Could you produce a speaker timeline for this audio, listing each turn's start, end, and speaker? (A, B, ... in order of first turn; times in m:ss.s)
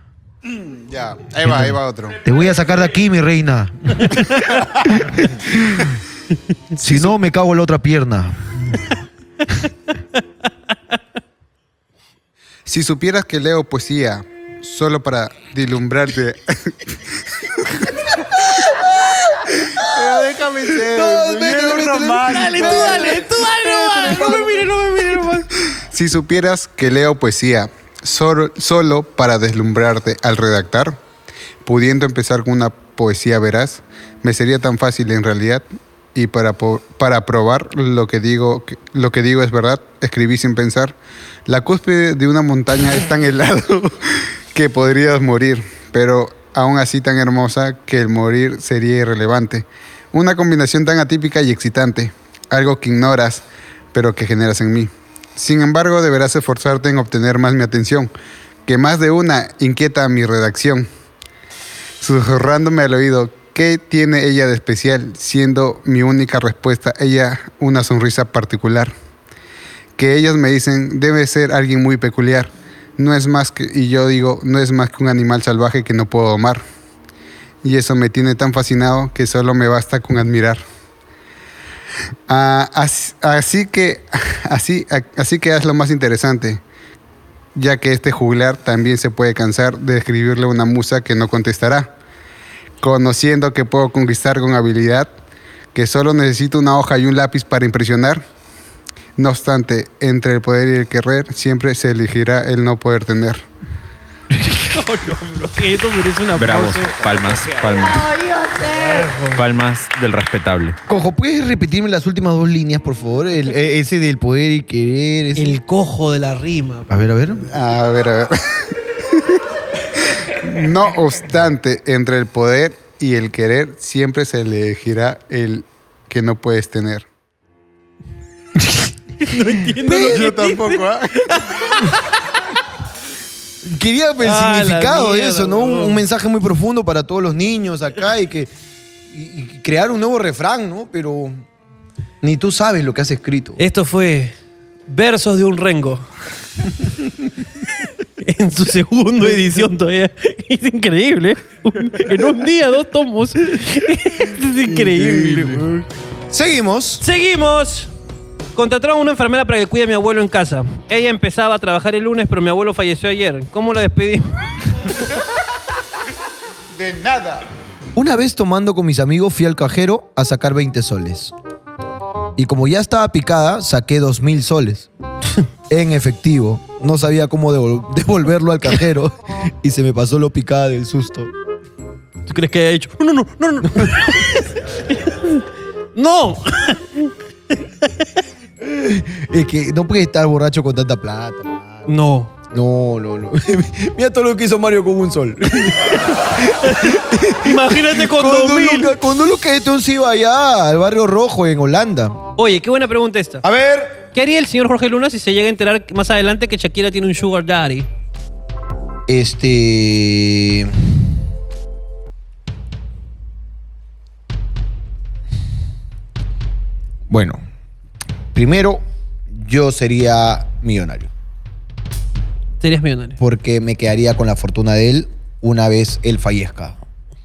0:00.5-0:02.2 A
0:01.4-0:04.2 B
0:04.9-0:05.9 B
0:06.8-0:08.5 B
0:12.7-0:17.0 A
0:17.6-0:17.8 A
0:18.4-0:18.7 B
0:19.8-0:23.3 A
0:20.8-0:24.7 B
0:22.3-0:25.5 C
0:25.9-0:31.0 A
0:31.6-0:41.0 A
0:41.5-0:58.1 A
0:58.7-1:00.9 A
1:02.0-1:08.9 A
1:10.0-1:16.6 A
1:17.6-1:20.6 A
1:22.3-1:26.6 A
1:27.6-1:31.9 A
1:32.8-1:35.1 A
1:35.7-1:38.2 A
1:39.2-1:43.4 A
1:44.4-1:47.5 C
1:46.3-1:48.2 D
1:48.6-1:49.4 C
1:49.0-1:50.8 D
1:50.9-1:55.6 B
1:55.4-1:56.9 C
1:56.9-1:57.4 B
1:57.5-1:59.4 A
2:00.4-2:07.0 A
2:09.2-2:12.0 C
2:09.9-2:11.7 A
2:10.0-2:10.3 B
2:13.6-2:18.5 B
2:14.2-2:16.0 C
2:19.1-2:21.4 B
2:22.2-2:23.6 B
2:23.6-2:24.3 C
2:24.9-2:26.1 C
2:28.2-2:35.7 C
2:34.8-2:37.0 B
2:37.0-2:37.9 C
2:38.5-2:44.3 C
2:46.8-2:47.4 A
2:48.0-2:51.3 B
2:52.4-2:54.9 B
2:55.7-3:01.3 B
3:02.3-3:08.1 C
3:08.6-3:11.9 B
3:11.9-3:12.3 C
3:12.5-3:22.2 B
3:16.6-3:18.9 C
3:22.4-3:23.4 C
3:23.4-3:24.0 B
3:24.1-3:27.9 C
3:29.1-3:30.9 B
3:37.1-3:37.4 B
3:38.3-3:41.1 B
3:42.6-3:43.2 C
3:43.2-3:46.8 B